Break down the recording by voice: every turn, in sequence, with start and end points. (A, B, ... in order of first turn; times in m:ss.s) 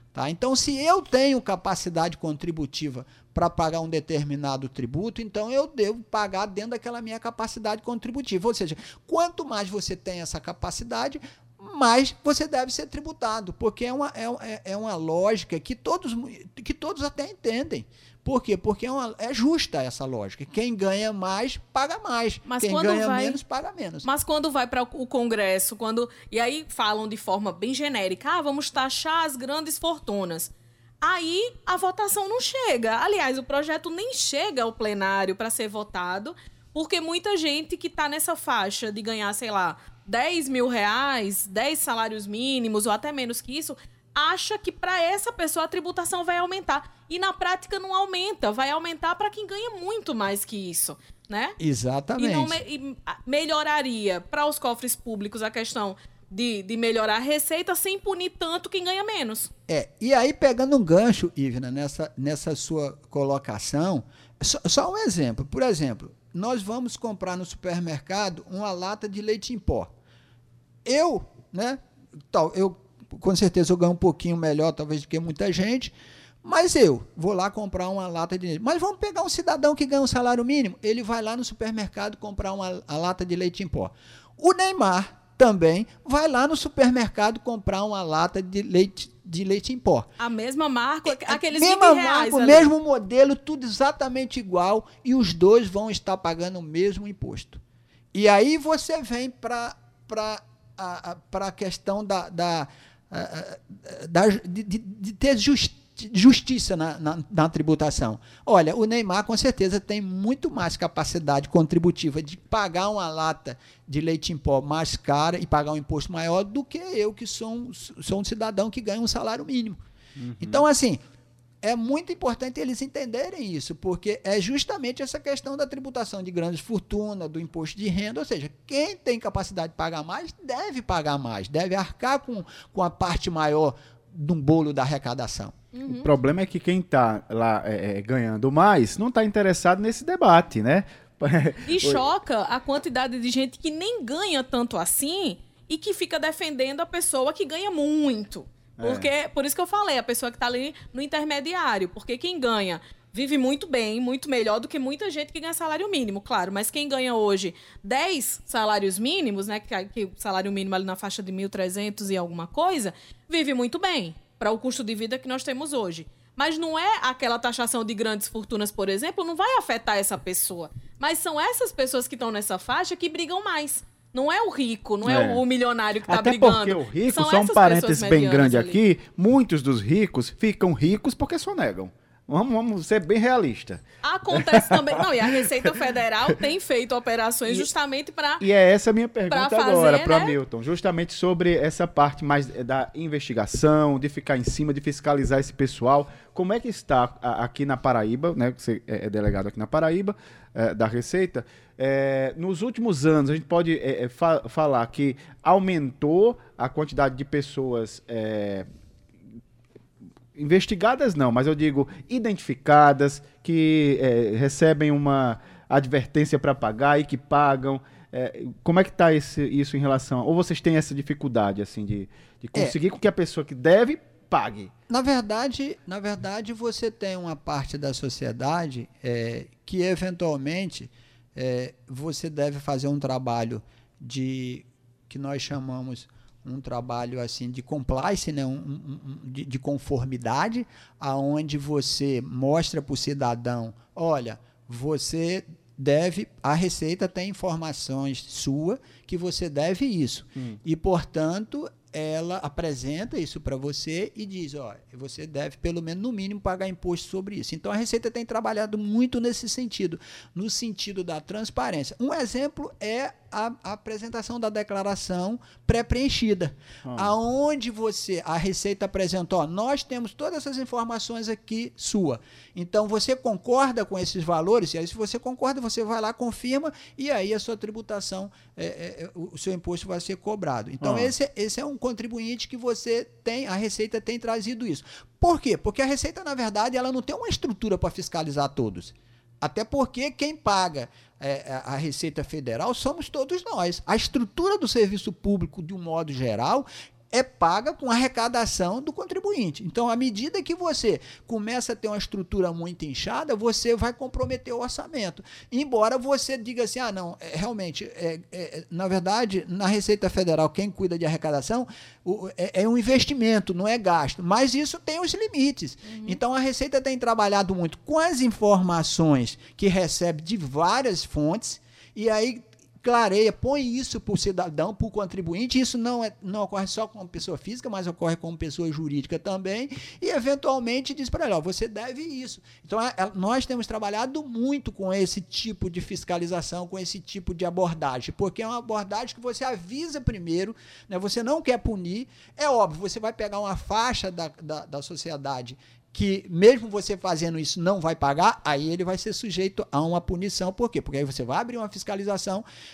0:00.1-0:24.1 A
0:22.5-0:23.4 B
0:24.0-0:51.6 B
0:51.6-0:52.6 A
0:52.2-0:59.5 B
0:59.7-1:09.9 A
1:10.8-1:30.1 A
1:30.2-1:32.7 B
1:31.1-1:37.6 A
1:38.1-1:59.8 A
2:00.2-2:00.6 C
2:00.4-2:01.0 A
2:01.6-2:15.6 A
2:15.7-2:16.1 B
2:15.9-2:22.0 C
2:21.6-2:58.8 B
2:28.8-2:29.1 C
2:55.0-2:55.4 C
2:56.1-3:03.8 C
3:04.0-3:08.4 B
3:04.3-3:05.4 C
3:08.4-3:28.7 C
3:09.3-3:10.4 B
3:30.4-3:44.7 C
3:44.9-5:52.4 A
4:26.8-4:27.1 C
4:40.8-4:41.1 C
5:15.8-5:16.2 B